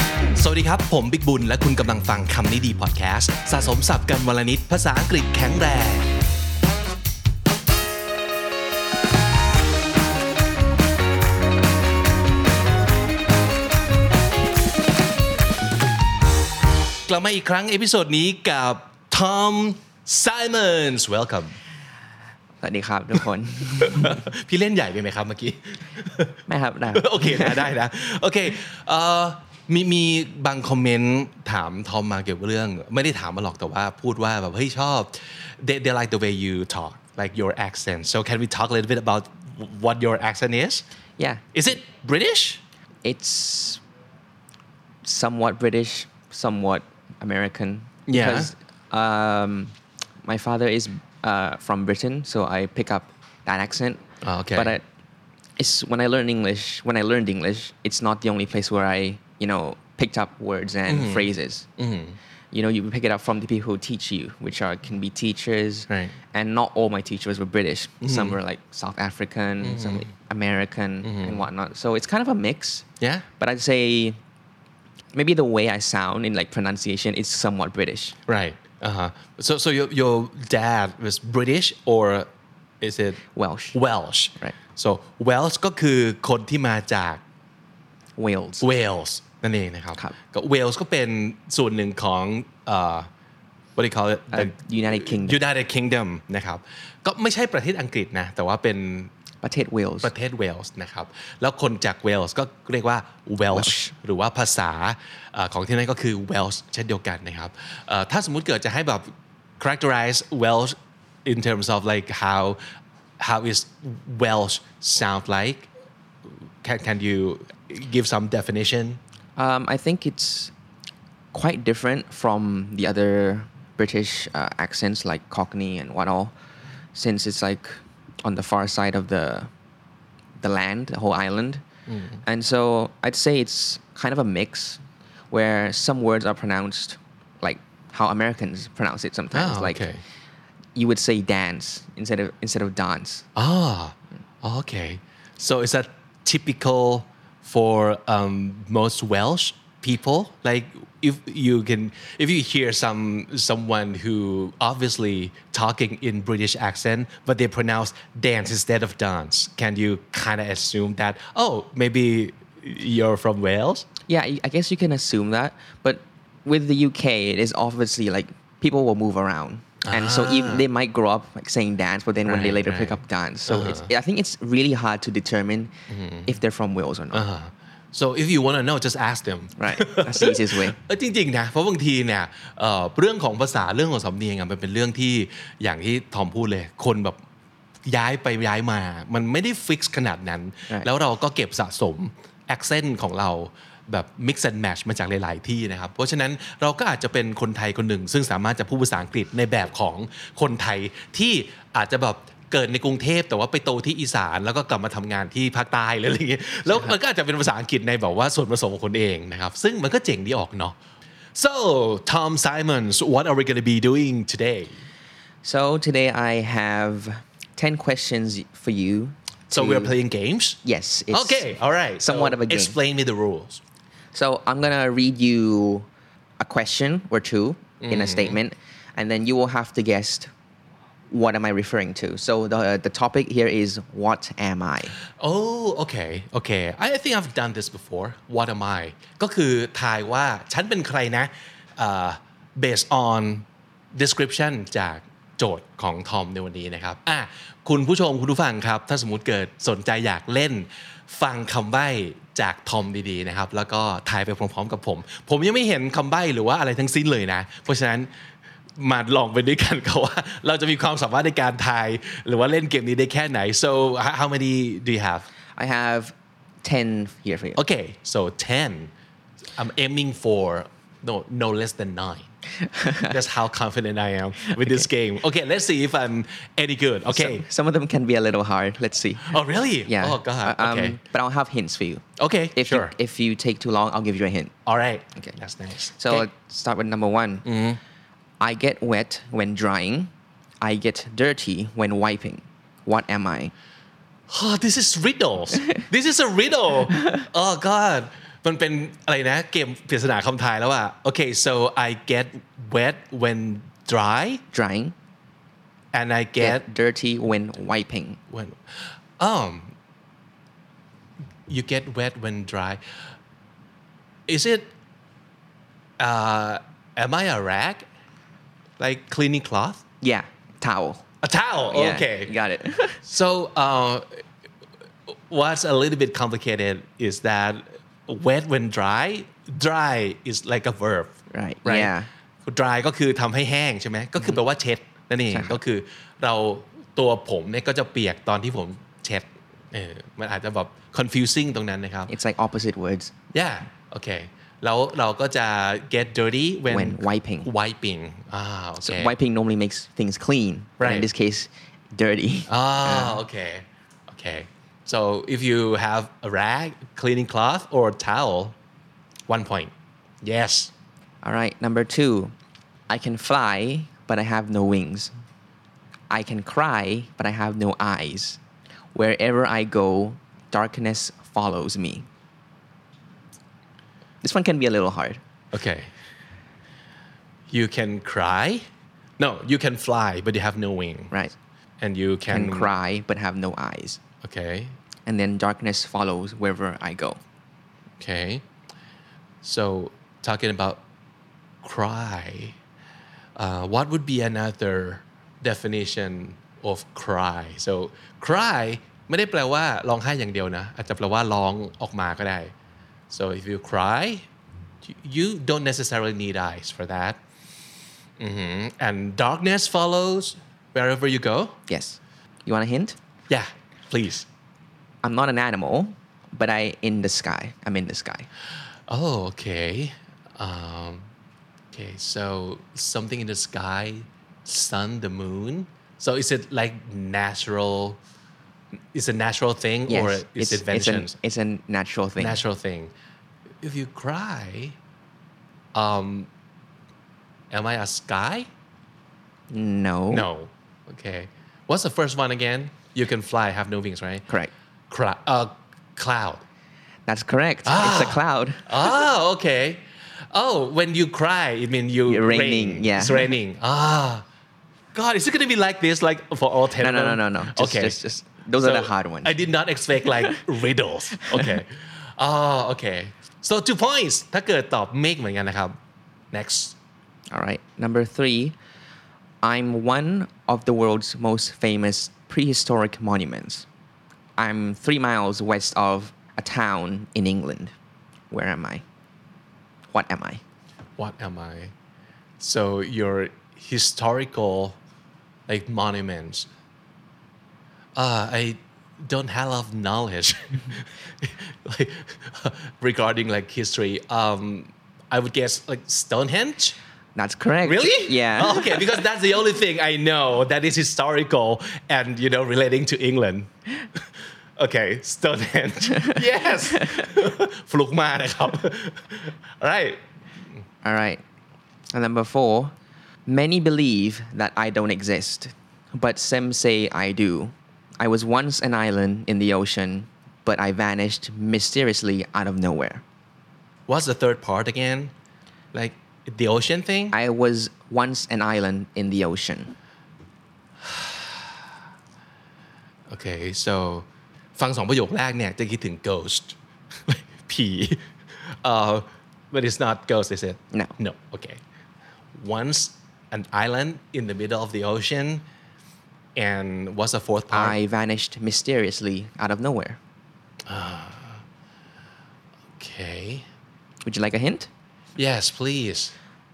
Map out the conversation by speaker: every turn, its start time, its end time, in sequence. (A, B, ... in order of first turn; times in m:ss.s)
0:00.3-0:06.1 A
0:17.0-0:21.6 A
0:22.6-0:24.2 B
0:23.8-0:40.8 A
0:26.5-0:27.7 B
0:41.2-0:41.4 B
0:41.5-0:42.6 A
0:43.0-0:43.8 B
0:45.0-0:54.8 B
0:48.1-0:48.5 A
0:54.2-0:54.8 A
0:55.6-1:01.7 B
1:00.8-1:02.2 A
1:02.5-1:12.8 B
1:05.9-1:06.1 A
1:08.0-1:08.4 A
1:09.6-1:10.1 A
1:11.0-1:11.5 A
1:13.0-1:13.3 A
1:13.4-1:14.2 B
1:15.1-1:18.2 B
1:18.3-1:22.3 A
1:22.8-1:23.2 A
1:23.3-1:23.8 B
1:23.7-1:27.2 A
1:28.2-1:28.7 B
1:28.6-1:33.1 A
1:33.8-1:39.1 A
1:34.3-1:35.4 B
1:39.4-1:40.1 B
1:40.0-1:52.6 A
1:43.5-1:43.9 B
1:53.2-1:55.7 A
1:56.6-1:59.0 A
1:59.4-2:00.5 B
2:01.3-2:06.3 B
2:06.9-2:09.5 B
2:10.4-2:11.6 B
2:11.9-2:12.2 A
2:12.2-2:19.9 B
2:19.3-2:20.0 A
2:20.7-2:23.2 B
2:23.4-2:43.9 A
2:44.1-2:55.7 B
2:49.8-2:50.6 A
2:52.2-2:53.9 A
2:55.9-2:56.4 A
2:56.3-2:57.3 B
2:57.1-3:07.2 A
2:59.6-3:00.8 B
3:07.8-3:30.8 A
3:26.7-3:27.0 B
3:31.3-3:34.7 A
3:35.4-3:40.0 B
3:39.5-3:40.6 A
3:40.6-3:42.8 B
3:41.1-3:43.6 A
3:44.1-3:45.9 B
3:46.4-3:50.3 B
3:47.8-3:48.4 A
3:51.1-3:55.0 B
3:55.2-4:18.1 A
4:18.8-4:25.2 A
4:25.6-4:27.6 B
4:27.6-4:28.9 A
4:29.6-4:32.3 A
4:32.8-4:33.0 B
4:33.0-4:37.4 A
4:37.1-4:42.0 B
4:39.2-4:41.0 A
4:42.2-4:42.9 A
4:42.5-4:44.5 B
4:44.6-4:46.3 A
4:46.0-4:47.5 B
4:47.4-4:47.8 A
4:48.4-4:53.5 B
4:54.3-5:04.4 A
5:04.5-5:04.9 B
5:05.9-5:06.6 A
5:06.4-5:08.2 B
5:08.3-5:08.6 A
5:09.2-5:09.7 A
5:11.5-5:12.8 A
5:14.3-5:14.7 A
5:16.0-5:17.8 A
5:18.8-5:19.8 A
5:20.0-5:21.0 B
5:21.2-5:22.3 A
5:21.7-5:23.0 B
5:23.0-5:24.2 A
5:25.1-5:31.9 A
5:31.3-5:32.1 B
5:32.4-5:42.1 A
5:35.3-5:35.6 B
5:42.1-5:43.1 B
5:43.3-5:49.1 A
5:46.7-5:47.5 B
5:48.8-5:53.2 B
5:50.8-5:51.1 A
5:52.5-5:58.5 A
5:59.3-6:00.7 A
6:01.2-6:02.3 B
6:02.9-6:05.1 B
6:06.1-6:08.4 B
6:08.9-6:12.1 B
6:14.2-6:15.2 B
6:15.5-6:15.9 A
6:17.5-6:18.6 A
6:19.2-6:21.1 A
6:21.8-6:22.7 A
6:22.3-6:24.0 B
6:24.2-6:24.8 A
6:25.0-6:27.2 B
6:28.0-6:28.4 A
6:29.4-6:30.8 A
6:31.6-6:32.6 A
6:33.4-6:42.5 A
6:43.1-6:44.3 A
6:44.8-6:47.2 A
6:48.2-6:51.6 A
6:51.7-6:53.0 B
6:53.3-6:54.3 A
6:55.0-6:58.3 B
6:58.9-7:01.1 A
7:01.7-7:08.0 A
7:08.9-7:11.2 A
7:09.9-7:12.4 B
7:12.2-7:12.9 A
7:13.6-7:14.8 A
7:15.7-7:16.3 A
7:17.5-7:18.5 A
7:19.5-7:20.3 B
7:20.1-7:24.2 A
7:24.9-7:26.4 A
7:27.1-7:28.8 B
7:27.6-7:34.2 A
7:32.0-7:33.3 B
7:34.9-7:38.0 A
7:36.8-7:39.4 B
7:38.6-7:45.8 A
7:46.3-7:46.8 A
7:47.3-7:48.6 B
7:49.4-7:53.6 B
7:54.4-7:57.7 B
7:58.3-7:58.8 B
7:59.9-8:00.4 B
8:01.0-8:01.7 A
8:02.4-8:04.8 A
8:05.5-8:06.5 A
8:07.9-8:16.8 A
8:17.1-8:19.0 B
8:17.6-8:23.5 A
8:24.6-8:30.0 A
8:30.8-8:31.2 B
8:31.9-8:32.7 B
8:33.2-8:43.0 B
8:43.9-8:45.1 A
8:45.7-8:47.2 A
8:47.1-8:49.7 B
8:50.9-8:51.2 A
8:53.1-9:01.6 A
9:02.3-9:05.4 A
9:06.4-9:07.8 A
9:07.5-9:10.0 B
9:10.7-9:11.4 A
9:12.8-9:13.5 A
9:14.0-9:14.7 B
9:15.2-9:16.1 A